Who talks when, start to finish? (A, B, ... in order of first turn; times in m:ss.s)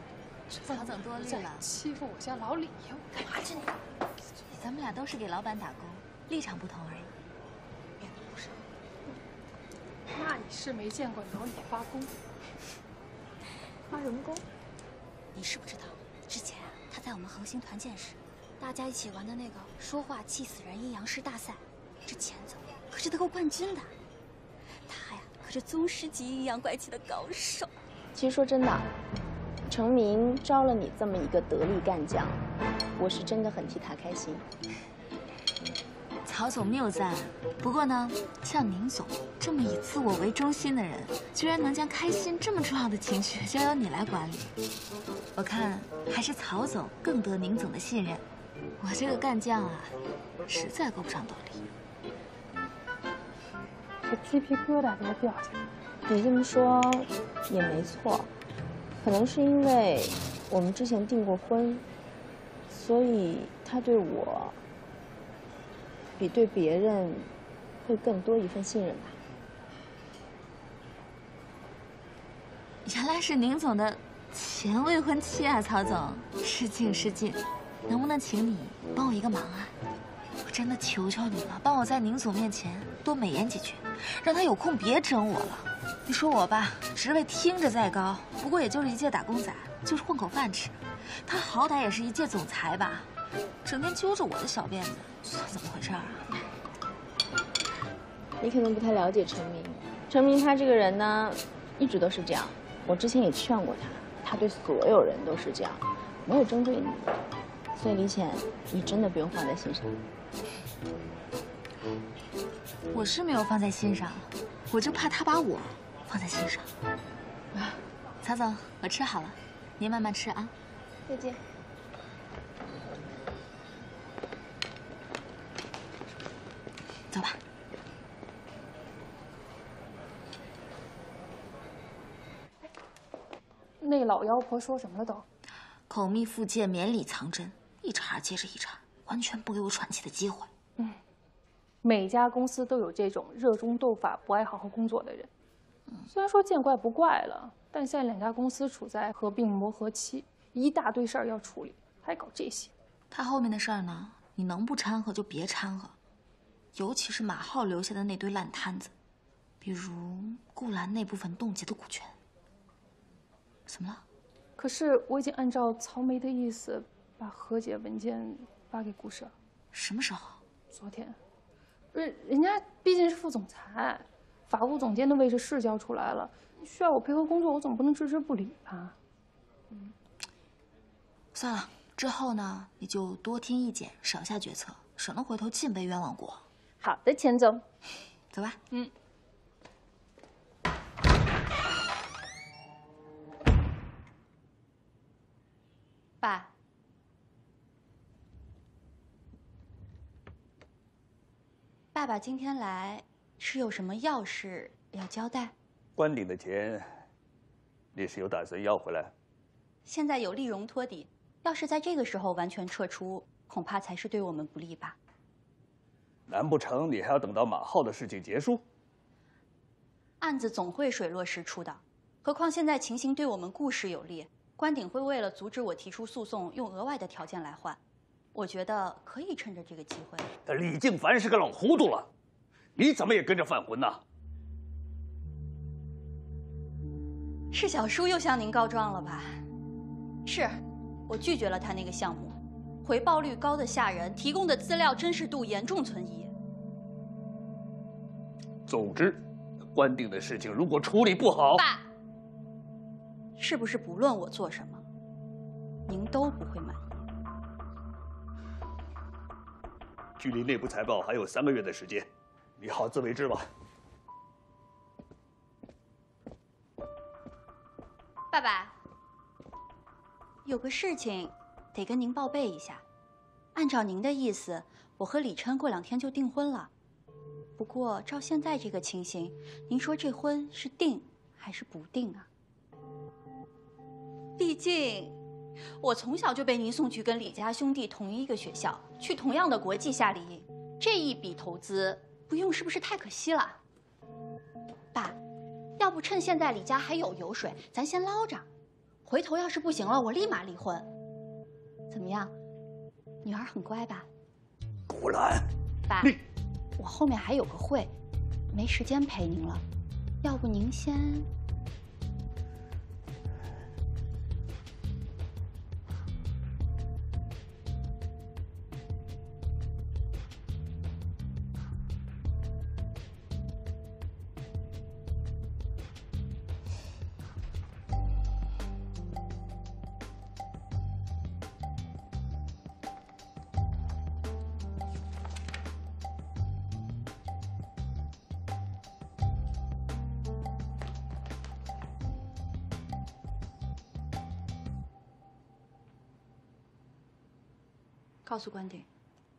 0:00.6-0:03.4 A
0:00.6-0:01.6 B
0:04.5-0:07.1 B
0:08.0-0:08.5 C
0:10.1-0:12.1 A
0:13.9-0:14.4 C
0:15.3-0:23.9 C
0:24.8-0:27.7 C
0:28.1-0:28.9 D
0:29.7-0:32.4 D
0:33.0-0:34.4 D
0:36.2-0:44.5 B
0:45.3-0:48.2 B
0:48.8-0:51.6 B
0:54.1-0:55.6 A
0:56.1-0:58.3 D
0:59.0-1:01.8 D
1:02.7-1:04.6 D
1:06.2-1:09.2 D
1:12.8-1:19.7 B
1:20.4-1:33.1 B
1:33.6-1:36.2 B
1:38.4-1:47.2 D
1:47.8-1:50.0 D
1:52.9-1:56.7 B
1:58.2-2:00.5 B
2:01.1-2:01.4 D
2:07.1-2:07.4 B
2:13.8-2:15.2 A
2:15.9-2:20.5 B
2:21.8-2:25.3 A
2:26.1-2:32.7 A
2:33.1-2:35.9 B
2:36.7-2:38.9 B
2:39.6-2:42.1 B
2:43.7-2:44.0 B
2:44.6-2:49.3 A
2:49.7-2:50.4 B
2:50.7-2:51.2 A
2:51.9-2:58.9 A
3:01.3-3:06.4 B
3:06.8-3:07.6 C
3:08.3-3:08.6 B
3:16.2-3:16.5 C
3:21.9-3:25.5 C
3:26.0-3:26.9 E
3:27.9-3:29.1 E
3:29.8-3:35.0 C
3:36.3-3:38.6 E
3:40.2-3:47.8 C
3:48.3-3:50.3 C
3:50.4-3:52.1 E
3:52.8-3:54.0 E
3:57.5-3:59.4 C
4:00.2-4:06.3 C
4:08.7-4:09.2 E
4:09.7-4:11.6 E
4:11.5-4:11.8 C
4:13.4-4:14.8 C
4:15.9-4:16.9 C
4:20.2-4:22.0 E
4:22.6-4:23.4 E
4:28.3-4:28.7 C
4:30.4-4:32.8 C
4:33.5-4:36.7 C
4:37.6-4:42.3 C
4:44.4-4:45.2 C
4:45.8-4:53.6 C
4:55.8-4:58.4 C
4:59.0-5:00.9 C
5:01.9-5:02.3 C
5:03.2-5:04.1 C
5:04.9-5:05.4 E
5:05.9-5:06.1 C
5:06.8-5:07.9 C
5:08.5-5:09.6 C
5:10.2-5:11.3 C
5:48.2-5:48.8 C